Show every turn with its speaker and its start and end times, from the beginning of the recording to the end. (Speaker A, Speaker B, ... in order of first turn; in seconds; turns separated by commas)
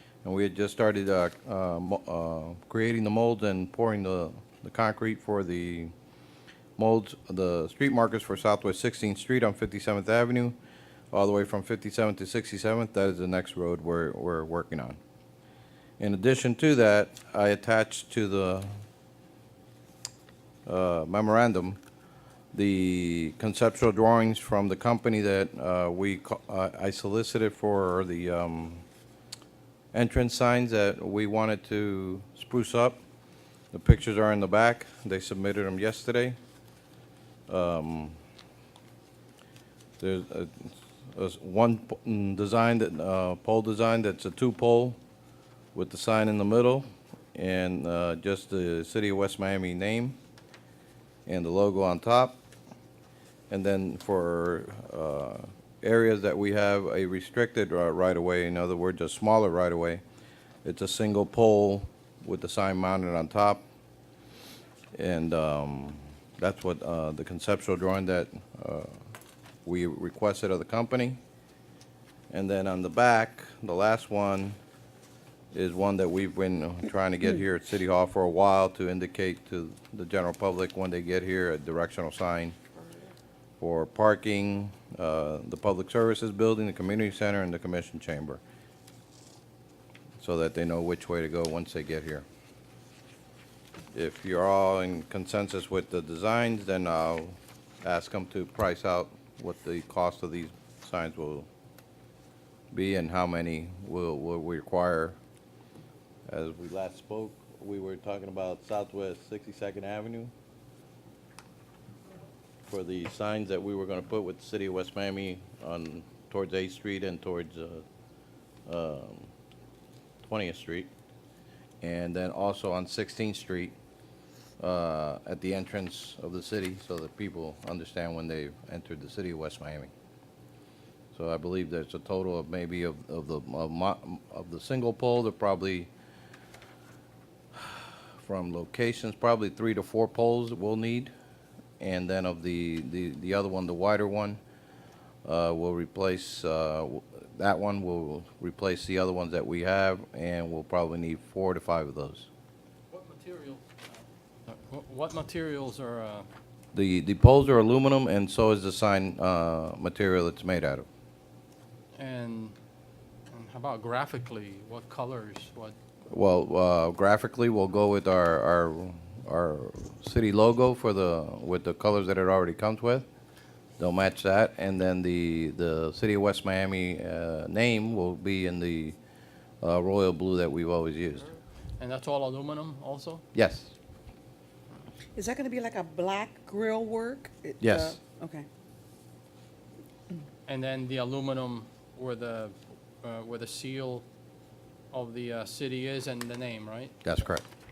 Speaker A: 0.2-5.9, Speaker A: 6.8-10.5, Speaker A: 11.1-15.0, Speaker A: 16.0-18.7, Speaker A: 20.6-21.8, Speaker A: 22.5-28.8, Speaker A: 29.9-33.0, Speaker A: 33.7-36.4, Speaker A: 37.5-38.2, Speaker A: 40.0-45.0, Speaker A: 45.7-50.2, Speaker A: 51.2-52.4, Speaker A: 53.5-60.0, Speaker A: 60.6-63.6, Speaker A: 64.9-69.0, Speaker A: 69.6-71.2, Speaker A: 72.3-74.6, Speaker A: 75.5-82.6, Speaker A: 83.6-88.4, Speaker A: 90.2-92.2, Speaker A: 93.9-101.5, Speaker A: 102.7-105.2, Speaker A: 106.3-110.3, Speaker A: 112.7-117.8, Speaker A: 118.7-119.3, Speaker A: 120.2-120.9, Speaker A: 121.8-123.7, Speaker A: 124.6-129.9, Speaker A: 131.1-135.9, Speaker A: 137.5-141.1, Speaker A: 141.8-144.4, Speaker A: 145.2-152.3, Speaker B: 152.9-156.3, Speaker A: 156.7-160.9, Speaker B: 161.9-162.5, Speaker B: 163.3-165.8, Speaker A: 166.1-173.1, Speaker A: 173.8-178.9, Speaker A: 179.6-181.3, Speaker B: 181.8-183.2, Speaker A: 183.3-183.7, Speaker C: 185.1-188.5, Speaker A: 187.6-188.0, Speaker B: 190.5-194.0, Speaker B: 194.9-197.1, Speaker A: 197.0-197.4